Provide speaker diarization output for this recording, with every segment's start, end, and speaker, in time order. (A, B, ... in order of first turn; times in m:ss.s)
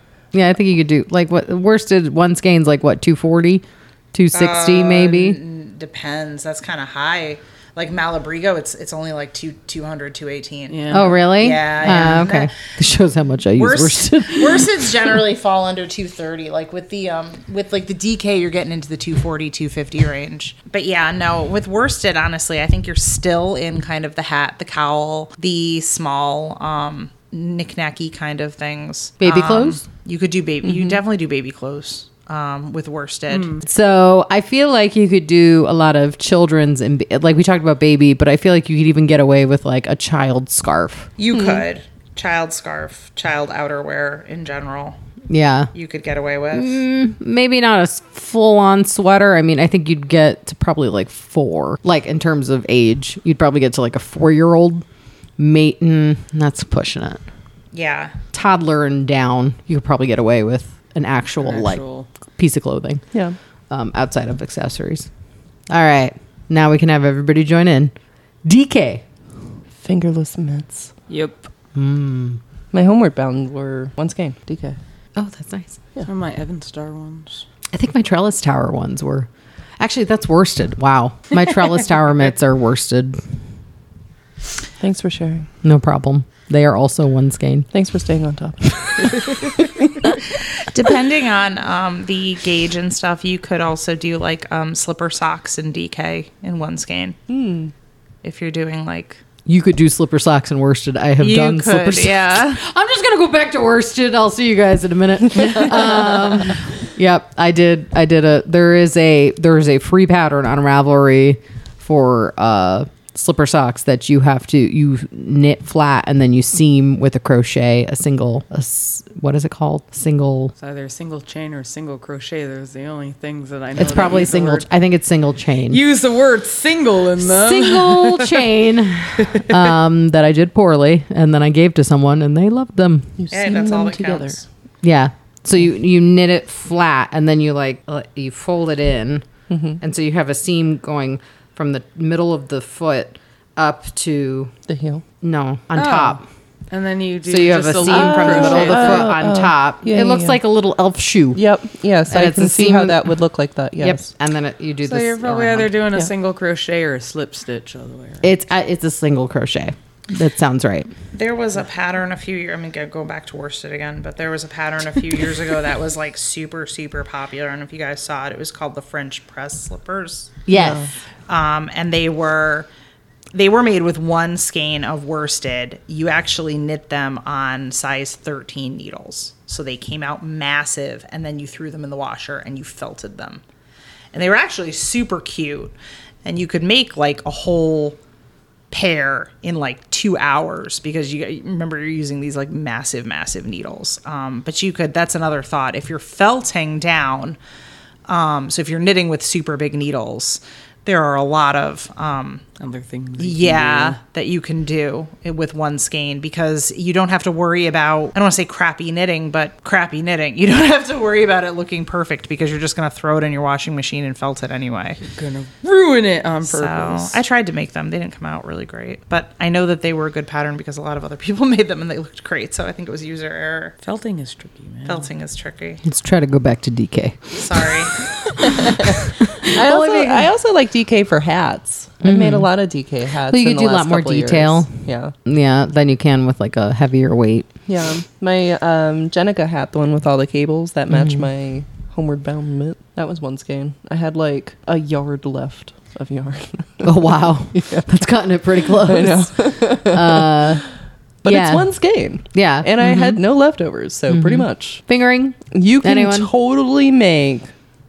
0:00.3-0:05.4 A
0:04.3-0:12.5 B
0:10.7-0:11.1 C
0:10.9-0:14.9 A
0:13.6-0:33.6 B
0:29.2-0:29.8 A
0:33.3-0:33.6 C
0:33.6-0:41.1 A
0:41.2-0:45.0 B
0:41.3-0:41.6 D
0:45.3-0:45.7 A
0:45.7-0:46.8 B
0:46.5-0:54.8 A
0:55.4-0:57.2 A
0:57.7-0:58.1 B
0:58.3-1:03.0 A
1:01.4-1:02.1 C
1:03.7-1:05.1 A
1:05.7-1:07.9 A
1:08.4-1:09.0 A
1:09.8-1:10.9 D
1:11.1-1:11.5 C
1:11.7-1:12.4 A
1:12.7-1:14.8 D
1:15.2-1:15.8 A
1:16.0-1:17.4 C
1:17.7-1:19.3 A
1:19.8-1:23.2 A
1:24.8-1:25.5 D
1:25.6-1:27.7 A
1:27.7-1:29.5 D
1:29.0-1:29.3 A
1:30.7-1:37.2 B
1:37.3-1:37.7 D
1:38.2-1:39.2 B
1:39.4-2:00.5 A
1:41.2-1:42.6 B
2:00.6-2:04.6 C
2:03.8-2:05.8 A
2:05.7-2:08.4 C
2:07.2-2:13.1 A
2:09.2-2:09.6 C
2:13.2-2:14.4 D
2:13.3-2:14.5 B
2:14.8-2:19.2 A
2:19.5-2:19.8 D
2:19.8-2:24.5 A
2:24.7-2:25.0 D
2:25.2-2:26.2 A
2:25.8-2:26.2 C
2:26.7-2:29.1 C
2:27.2-2:31.4 A
2:27.8-2:30.4 D
2:31.3-2:34.1 D
2:32.1-2:33.0 A
2:33.8-2:35.7 A
2:34.8-2:38.2 C
2:38.2-2:40.9 A
2:41.1-2:50.4 B
2:50.5-2:50.9 A
2:50.5-2:50.9 D
2:51.3-2:52.7 B
2:53.3-3:03.4 B
3:04.1-3:08.0 B
3:08.7-3:17.4 B
3:18.1-3:22.4 B
3:22.6-3:24.0 C
3:23.2-3:35.0 B
3:35.0-3:37.2 C
3:36.4-3:43.7 B
3:43.8-3:45.1 C
3:44.9-3:45.8 B
3:45.8-3:47.4 A
3:47.3-3:48.0 B
3:48.3-3:50.3 A
3:49.4-3:55.1 D
3:52.0-3:52.5 A
3:53.3-3:54.7 A
3:55.2-3:57.5 A
3:57.7-4:07.9 D
4:06.8-4:10.6 A
4:08.7-4:10.5 D
4:11.2-4:14.8 D
4:11.2-4:11.7 A
4:12.3-4:13.2 A
4:14.1-4:16.3 A
4:15.5-4:17.5 D